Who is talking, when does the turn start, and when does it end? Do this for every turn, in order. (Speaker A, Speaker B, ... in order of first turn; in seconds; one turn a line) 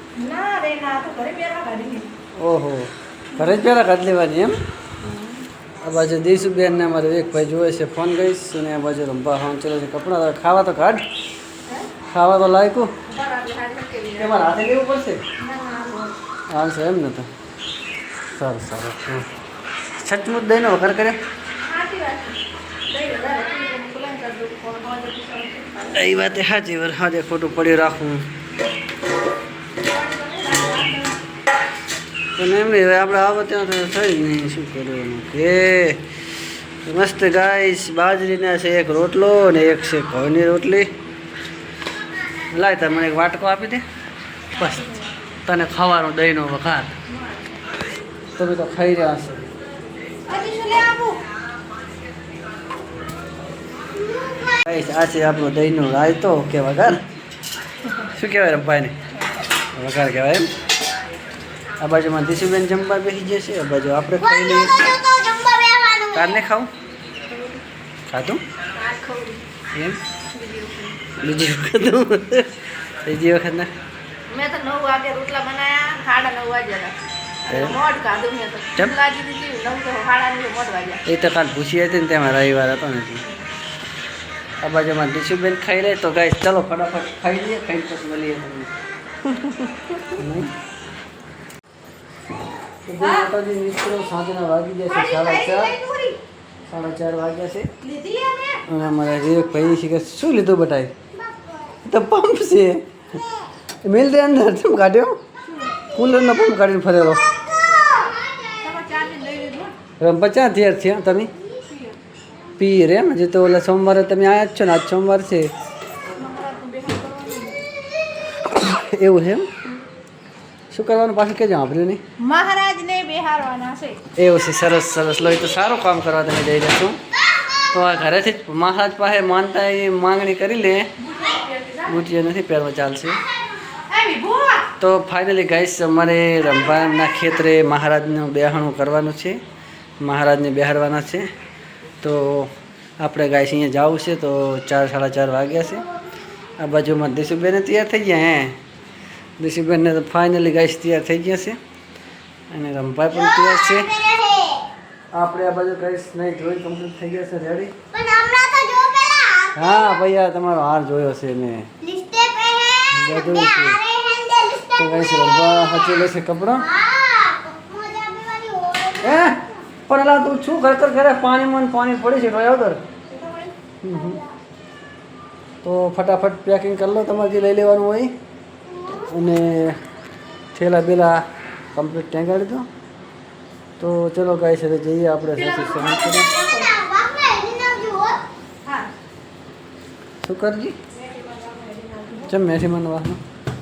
Speaker A: 0.1-2.1
Speaker B: 2.3-4.6
Speaker A: 3.3-3.6
Speaker A: 5.0-5.5
Speaker B: 5.8-11.0
Speaker B: 12.1-12.9
Speaker A: 13.1-14.4
Speaker B: 14.2-15.2
Speaker A: 15.4-16.1
Speaker B: 16.5-17.3
Speaker B: 18.2-19.3
Speaker B: 20.0-21.2
Speaker A: 21.6-26.3
Speaker B: 25.9-28.3
Speaker A: 29.8-31.2
Speaker B: 32.4-36.0
Speaker B: 36.8-40.9
Speaker B: 42.5-43.8
Speaker B: 44.5-44.9
Speaker A: 44.5-45.1
Speaker B: 45.4-46.9
Speaker A: 47.1-47.5
Speaker B: 48.4-49.5
Speaker A: 50.2-51.2
Speaker B: 54.5-57.0
Speaker B: 58.1-58.9
Speaker B: 59.7-60.5
Speaker B: 61.8-64.8
Speaker C: 64.3-66.3
Speaker B: 66.1-66.7
Speaker A: 67.3-67.6
Speaker B: 68.1-68.4
Speaker A: 68.7-69.4
Speaker B: 69.7-70.0
Speaker A: 70.3-71.0
Speaker B: 71.1-73.7
Speaker A: 74.3-81.0
Speaker B: 77.5-77.8
Speaker B: 81.0-83.2
Speaker B: 84.6-88.7
Speaker A: 89.3-90.1
Speaker B: 90.2-90.5
Speaker B: 92.8-95.7
Speaker A: 93.0-93.3
Speaker A: 94.9-96.2
Speaker B: 96.7-97.7
Speaker A: 97.8-98.6
Speaker B: 98.7-100.9
Speaker C: 101.2-101.8
Speaker B: 101.8-102.9
Speaker B: 103.8-105.2
Speaker A: 105.5-105.7
Speaker B: 105.9-107.2
Speaker A: 108.6-109.8
Speaker B: 110.0-111.3
Speaker A: 111.6-112.0
Speaker B: 112.6-115.5
Speaker A: 116.2-117.6
Speaker B: 118.4-119.5
Speaker B: 120.7-122.0
Speaker A: 122.2-124.0
Speaker B: 124.2-127.0
Speaker B: 127.7-130.9
Speaker A: 131.0-132.0
Speaker B: 131.8-133.2
Speaker A: 133.9-134.7
Speaker B: 134.8-139.4
Speaker B: 140.0-141.3
Speaker B: 142.0-145.8
Speaker B: 146.6-148.6
Speaker B: 149.4-151.6
Speaker B: 152.5-154.1
Speaker C: 153.3-154.7
Speaker B: 155.1-157.7
Speaker C: 157.9-159.7
Speaker B: 159.5-161.7
Speaker C: 161.8-165.8
Speaker B: 162.9-163.8
Speaker B: 164.8-166.7
Speaker C: 166.6-169.4
Speaker B: 169.0-172.8
Speaker C: 173.1-174.3
Speaker B: 173.8-174.2
Speaker B: 175.6-178.1
Speaker C: 178.7-179.0
Speaker B: 178.9-179.8
Speaker B: 180.5-181.2
Speaker B: 181.7-182.7
Speaker B: 183.8-186.3
Speaker A: 185.6-186.6
Speaker C: 185.7-188.2
Speaker A: 188.6-188.9
Speaker B: 190.2-190.8
Speaker A: 190.9-192.4
Speaker B: 192.2-193.2